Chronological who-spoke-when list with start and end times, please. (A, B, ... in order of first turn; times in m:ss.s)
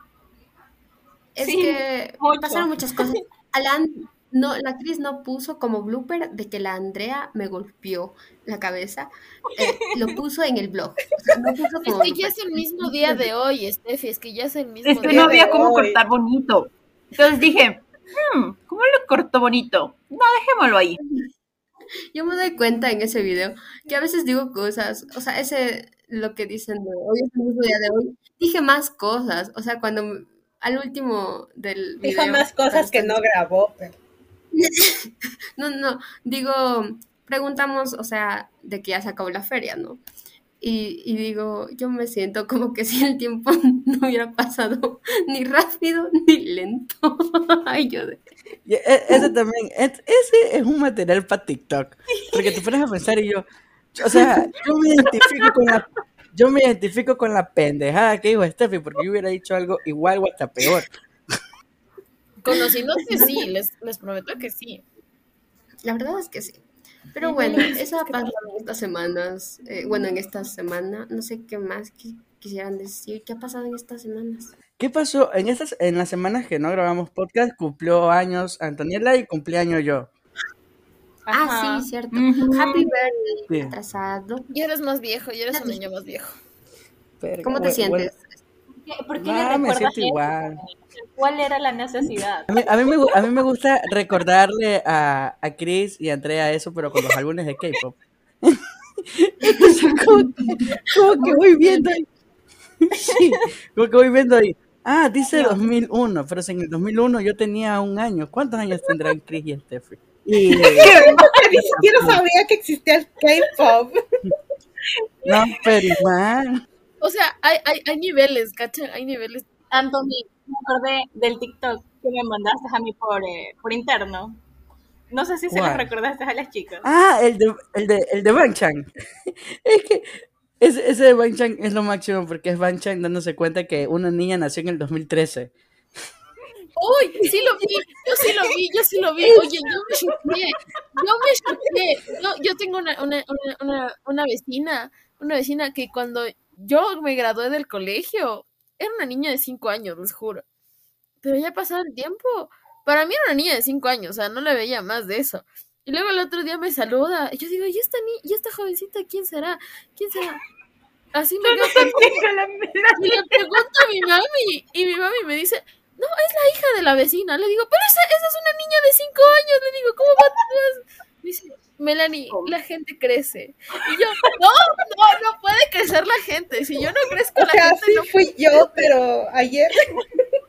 0:01.4-0:12.3 A
0:01.4-0:03.1 B
0:11.8-0:15.5 C
0:14.8-0:21.0 D
0:15.0-0:16.0 E
0:22.1-0:33.2 A
0:32.0-0:33.9 E
0:34.5-0:40.0 A
0:40.6-0:48.2 A
0:48.7-1:00.9 F
1:02.4-1:04.8 C
1:05.8-1:06.6 A
1:07.1-1:14.5 A
1:07.2-1:08.3 C
1:14.8-1:20.1 F
1:21.3-1:21.9 B
1:21.3-1:24.4 A
1:22.1-1:22.9 D
1:24.5-1:26.4 C
1:27.2-1:28.1 F
1:27.4-1:28.3 A
1:28.8-1:32.6 B
1:29.2-1:30.6 F
1:32.5-1:42.1 F
1:42.8-1:50.9 F
1:50.6-1:51.3 D
1:50.8-1:54.0 E
1:51.7-1:52.2 F
1:55.2-1:56.6 F
1:57.0-1:59.4 C
1:59.7-2:04.4 B
2:05.1-2:06.8 B
2:05.5-2:05.9 F
2:06.8-2:15.5 F
2:16.8-2:30.4 C
2:31.2-2:40.4 C
2:41.1-2:42.2 C
2:41.4-2:43.4 D
2:42.9-2:58.7 C
2:57.4-2:59.8 E